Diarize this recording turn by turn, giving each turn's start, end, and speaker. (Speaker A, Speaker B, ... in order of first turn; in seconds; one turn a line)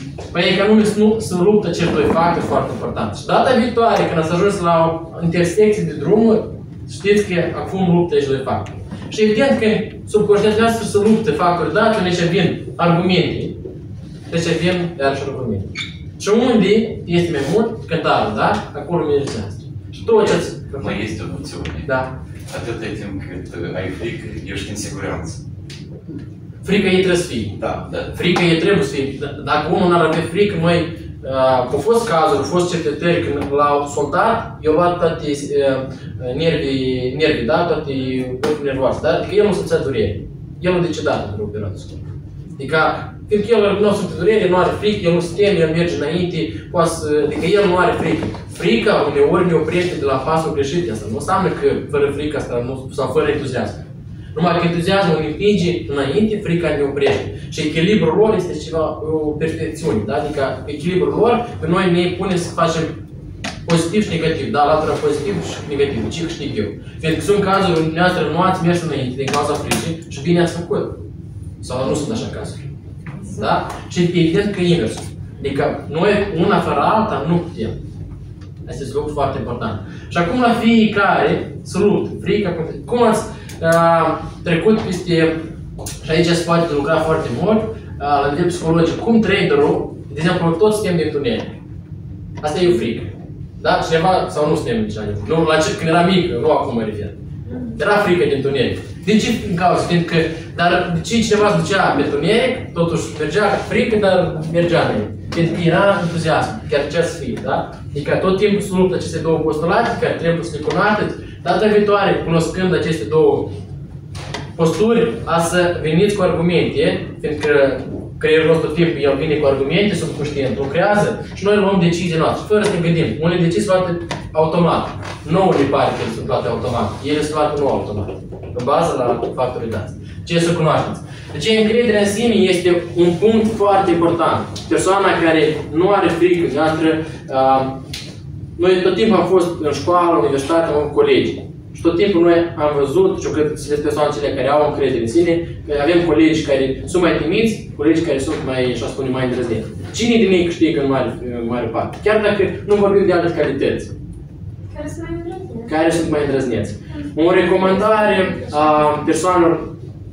Speaker A: 0.3-13.6
Speaker A: 14.3-21.0
Speaker B: 20.0-21.9
Speaker A: 21.8-22.1
Speaker B: 22.5-25.4
Speaker A: 26.6-42.0
Speaker B: 27.6-28.1
Speaker A: 42.6-53.8
Speaker A: 54.3-62.9
Speaker A: 63.6-71.0
Speaker A: 71.6-72.6
Speaker A: 73.3-77.7
Speaker A: 78.7-85.4
Speaker A: 86.0-91.5
Speaker A: 92.4-97.1
Speaker A: 97.8-113.5
Speaker A: 114.5-137.8
Speaker A: 138.6-153.9
Speaker C: 154.7-155.7
Speaker A: 155.7-159.7
Speaker C: 157.3-158.7